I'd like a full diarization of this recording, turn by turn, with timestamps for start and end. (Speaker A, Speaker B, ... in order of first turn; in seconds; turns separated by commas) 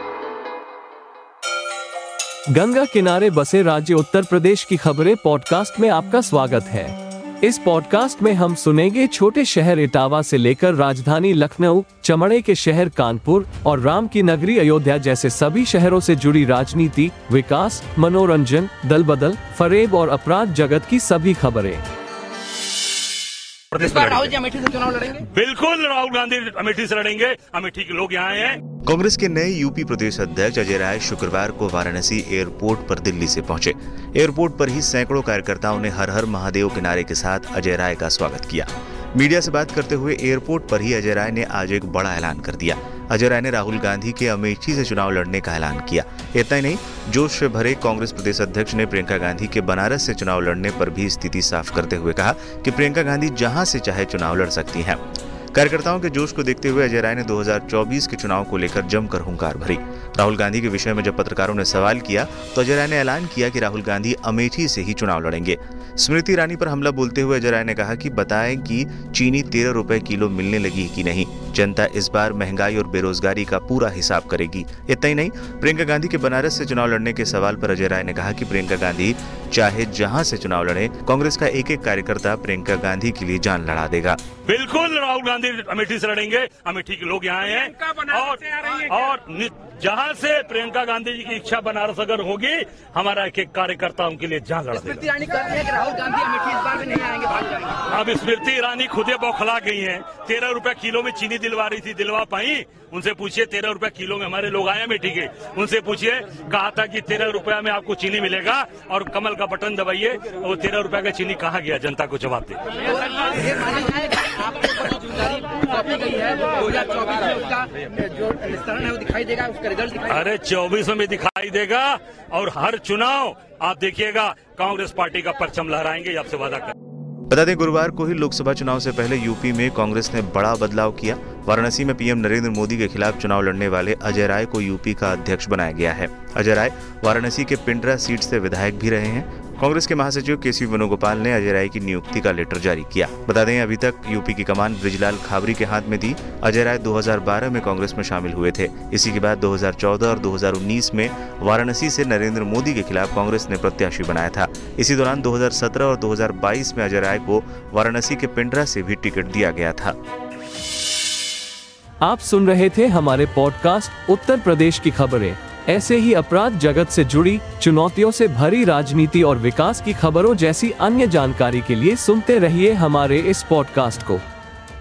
Speaker A: 2.5-21.8, Speaker B: 23.7-28.6, Speaker C: 24.5-25.1, Speaker D: 28.9-55.0, Speaker D: 55.5-84.2, Speaker B: 84.5-95.3, Speaker C: 95.2-97.6, Speaker B: 97.3-114.0, Speaker C: 115.1-120.0, Speaker B: 119.8-126.7, Speaker D: 127.3-160.0, Speaker A: 162.0-174.2